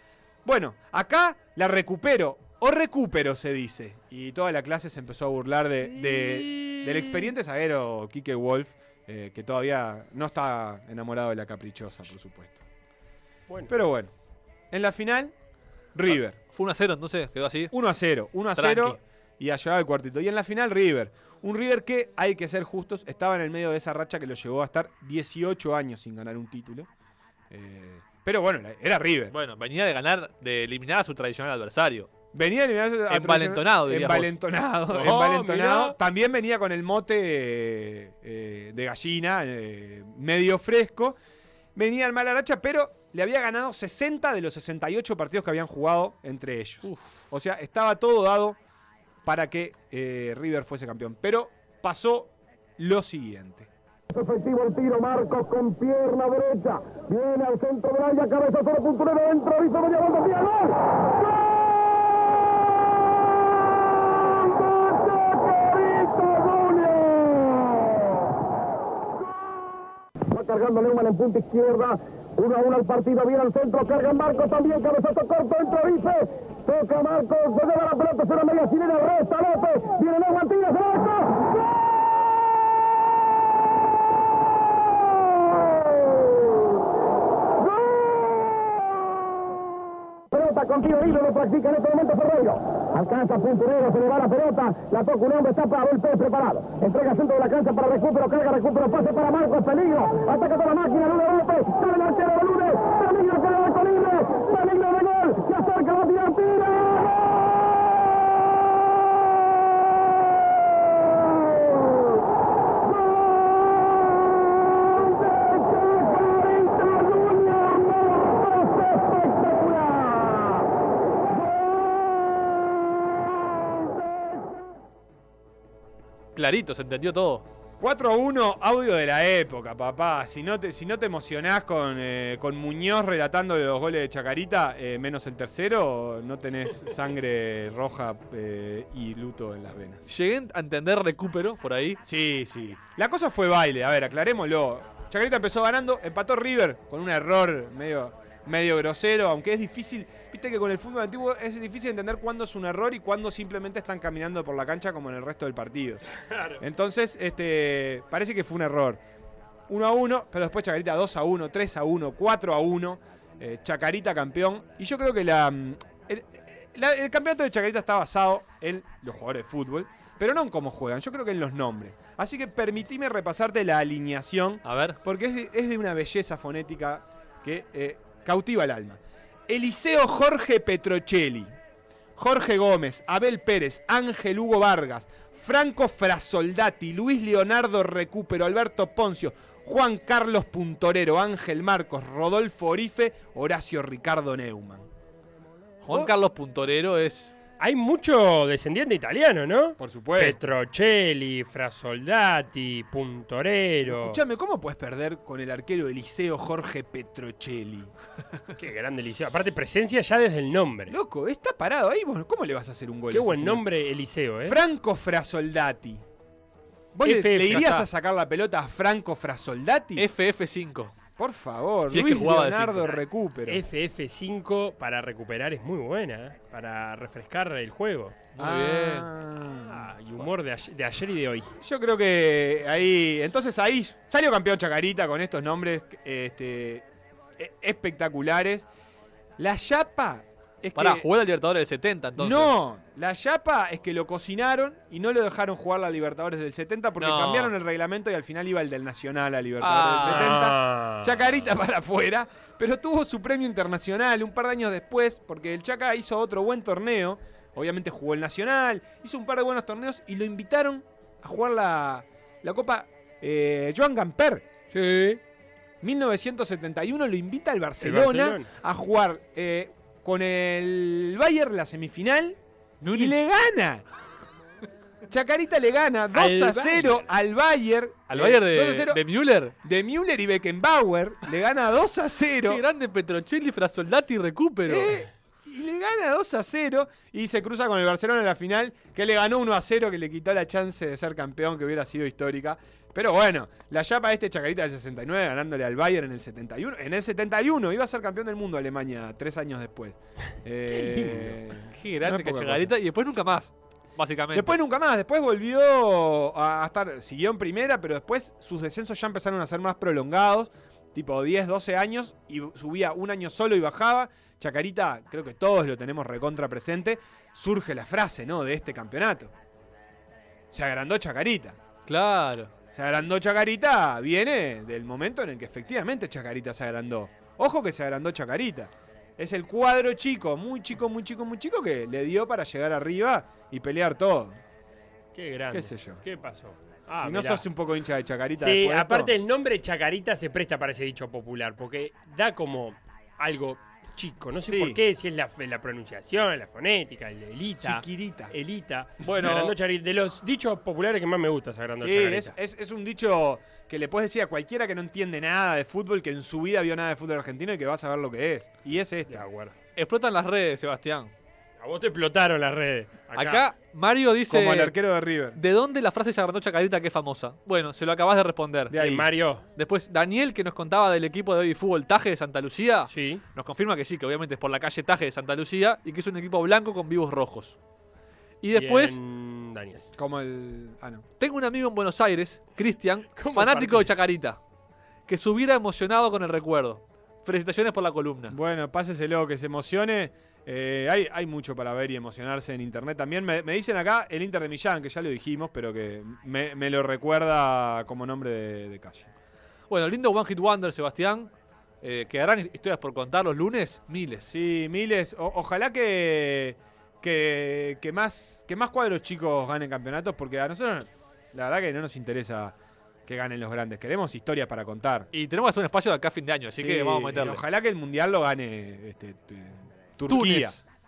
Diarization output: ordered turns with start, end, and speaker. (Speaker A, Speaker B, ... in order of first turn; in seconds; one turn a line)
Speaker A: 0.4-12.6
Speaker B: 5.9-7.3
Speaker C: 13.5-13.7
Speaker A: 13.7-14.1
Speaker A: 14.7-15.3
Speaker A: 15.9-16.4
Speaker B: 16.5-17.7
Speaker A: 17.7-26.9
Speaker B: 18.5-19.0
Speaker A: 27.5-29.3
Speaker B: 29.3-32.1
Speaker A: 32.3-41.2
Speaker B: 33.1-34.4
Speaker C: 34.9-36.0
Speaker A: 41.7-48.6
Speaker B: 46.8-47.1
Speaker A: 49.2-53.7
Speaker D: 54.1-61.0
Speaker D: 64.4-68.0
Speaker D: 70.3-81.5
Speaker D: 87.8-88.4
Speaker D: 90.3-107.2
Speaker D: 115.5-120.4
Speaker B: 126.3-127.5
Speaker A: 127.8-140.1
Speaker B: 140.1-142.0
Speaker A: 142.0-156.0
Speaker A: 156.6-159.0
Speaker A: 159.7-181.5
Speaker B: 174.6-175.0
Speaker A: 182.2-194.9
Speaker B: 195.8-197.3
Speaker C: 197.6-204.2
Speaker A: 199.8-200.4
Speaker A: 203.8-207.9
Speaker C: 208.6-210.9
Speaker A: 210.9-213.6
Speaker C: 213.1-214.6
Speaker A: 214.4-216.0
Speaker A: 216.9-220.1
Speaker C: 217.0-217.7
Speaker B: 217.5-217.8
Speaker B: 219.9-220.9
Speaker A: 221.2-223.6
Speaker B: 221.9-222.9
Speaker C: 222.8-228.2
Speaker B: 228.3-229.1
Speaker A: 228.4-229.9
Speaker C: 229.4-231.5
Speaker A: 231.6-236.8
Speaker A: 237.4-238.7
Speaker A: 239.4-241.1
Speaker B: 240.8-242.5
Speaker A: 242.2-264.4
Speaker B: 247.0-247.5
Speaker B: 249.6-250.4
Speaker C: 250.0-251.2
Speaker C: 264.7-265.2
Speaker A: 265.8-272.4
Speaker C: 267.8-268.5
Speaker B: 272.8-273.2
Speaker A: 272.9-273.8
Speaker A: 275.1-279.0
Speaker C: 276.1-277.1
Speaker B: 278.1-279.5
Speaker A: 279.6-282.6
Speaker B: 282.4-285.1
Speaker A: 284.7-302.7
Speaker C: 300.7-301.4
Speaker B: 301.7-304.6
Speaker A: 304.3-319.3
Speaker A: 320.5-321.6
Speaker B: 321.9-322.5
Speaker A: 322.7-334.4
Speaker C: 335.1-337.4
Speaker A: 335.5-336.0
Speaker A: 337.0-339.1
Speaker C: 338.4-352.3
Speaker A: 344.5-344.8
Speaker A: 347.6-348.3
Speaker B: 349.0-349.5
Speaker A: 351.8-359.3
Speaker C: 359.1-359.5
Speaker B: 359.8-361.1
Speaker C: 361.6-363.5
Speaker B: 363.1-364.7
Speaker A: 364.3-365.4
Speaker B: 365.4-368.8
Speaker A: 368.7-369.1
Speaker C: 368.7-369.4
Speaker B: 369.6-377.6
Speaker C: 372.9-373.2
Speaker B: 378.4-379.0
Speaker C: 378.5-379.8
Speaker A: 380.0-381.0
Speaker B: 381.2-384.4
Speaker C: 383.2-383.9
Speaker B: 385.1-388.4
Speaker A: 388.3-399.1
Speaker B: 399.7-401.3
Speaker B: 401.8-404.4
Speaker A: 404.3-412.5
Speaker A: 413.1-415.1
Speaker B: 415.1-417.4
Speaker A: 416.6-420.6
Speaker B: 420.1-420.6